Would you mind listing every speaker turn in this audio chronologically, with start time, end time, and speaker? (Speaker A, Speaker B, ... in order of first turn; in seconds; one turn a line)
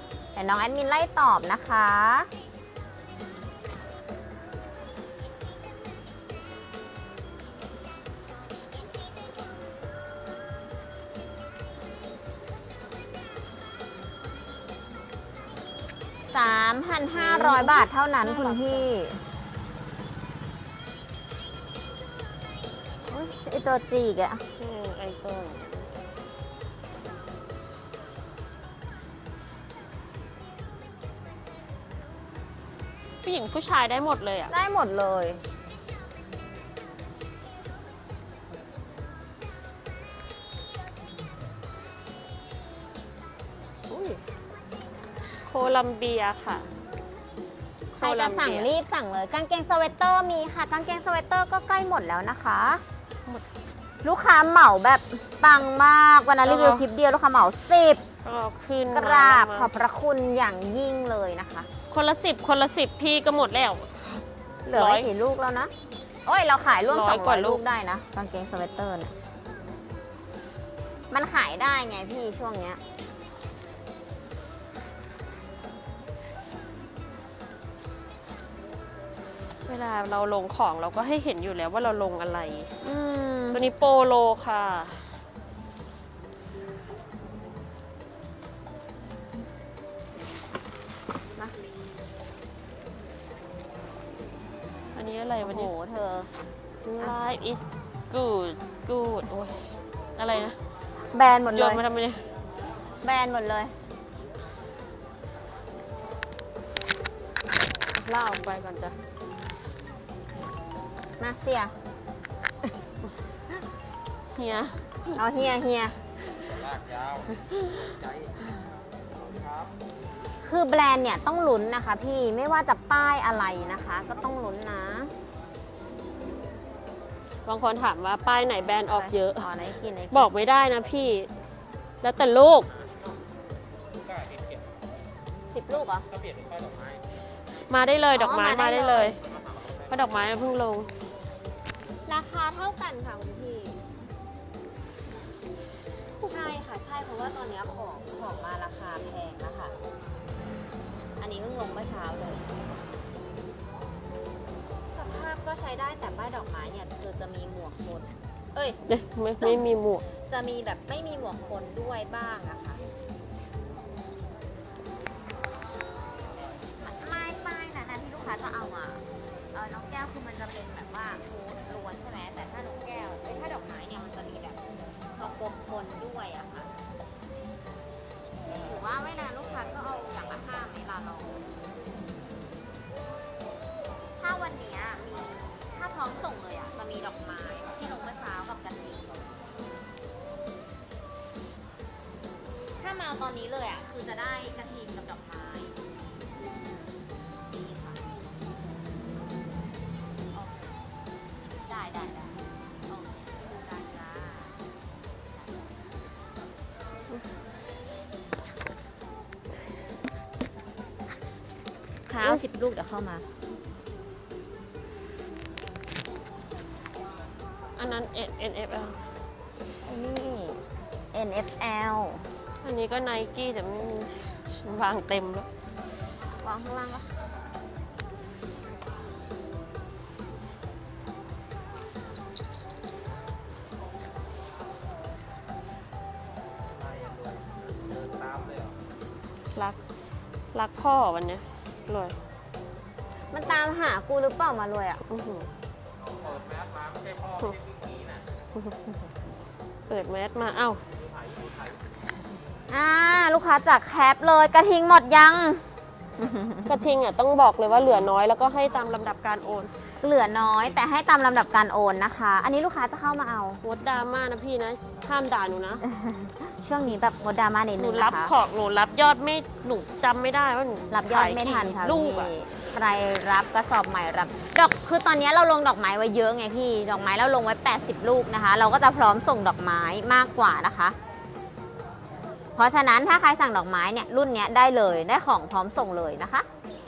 Speaker A: 0.3-2.3
Speaker A: 16.2-19.2
Speaker B: 17.1-18.9
Speaker A: 23.1-24.4
Speaker B: 24.6-25.9
Speaker B: 33.2-34.5
Speaker A: 34.5-35.4
Speaker B: 43.9-44.2
Speaker B: 45.5-46.7
Speaker B: 48.0-48.7
Speaker A: 48.0-52.8
Speaker A: 54.0-58.0
Speaker B: 56.4-56.9
Speaker B: 58.2-59.7
Speaker A: 58.9-61.7
Speaker B: 61.9-64.2
Speaker A: 64.7-65.7
Speaker B: 64.7-65.1
Speaker A: 66.3-69.1
Speaker B: 66.9-67.6
Speaker A: 71.1-72.8
Speaker B: 79.7-82.7
Speaker A: 82.8-83.6
Speaker B: 83.5-85.1
Speaker B: 94.9-95.7
Speaker A: 95.4-96.3
Speaker B: 96.8-100.6
Speaker A: 101.1-101.8
Speaker B: 101.5-102.2
Speaker A: 103.0-103.7
Speaker B: 107.9-109.0
Speaker A: 111.2-111.7
Speaker B: 114.3-115.2
Speaker A: 115.2-116.0
Speaker C: 116.5-117.3
Speaker B: 117.4-117.9
Speaker C: 117.9-118.3
Speaker C: 119.2-119.7
Speaker A: 120.4-125.1
Speaker B: 127.5-129.5
Speaker A: 128.8-130.3
Speaker B: 130.1-131.3
Speaker B: 132.0-132.7
Speaker C: 134.1-134.7
Speaker A: 135.5-136.1
Speaker C: 136.1-137.0
Speaker B: 137.7-139.2
Speaker A: 138.1-139.2
Speaker B: 139.9-140.9
Speaker A: 142.1-143.8
Speaker A: 146.2-149.8
Speaker A: 151.2-152.4
Speaker A: 154.9-158.8
Speaker B: 158.9-160.1
Speaker A: 160.3-162.8
Speaker A: 166.8-174.6
Speaker A: 175.2-176.7
Speaker A: 178.6-181.4
Speaker A: 184.2-189.2
Speaker A: 192.8-195.8
Speaker A: 197.5-198.0
Speaker A: 200.3-200.8
Speaker A: 201.7-202.4
Speaker A: 202.9-204.5
Speaker A: 212.1-213.3
Speaker B: 217.8-219.1
Speaker A: 219.8-220.6
Speaker A: 221.1-222.3
Speaker B: 222.6-225.5
Speaker A: 226.4-227.1
Speaker C: 236.8-238.8
Speaker B: 240.5-242.2
Speaker A: 243.3-245.0
Speaker B: 245.1-245.5
Speaker C: 246.2-248.2
Speaker B: 248.6-248.9
Speaker B: 249.9-250.8
Speaker C: 251.1-251.8
Speaker A: 252.7-255.7
Speaker A: 256.2-256.7
Speaker B: 256.7-259.7
Speaker A: 260.0-263.6
Speaker B: 263.6-265.8
Speaker A: 265.9-268.3
Speaker B: 267.8-272.3
Speaker A: 270.9-281.0
Speaker A: 282.6-286.5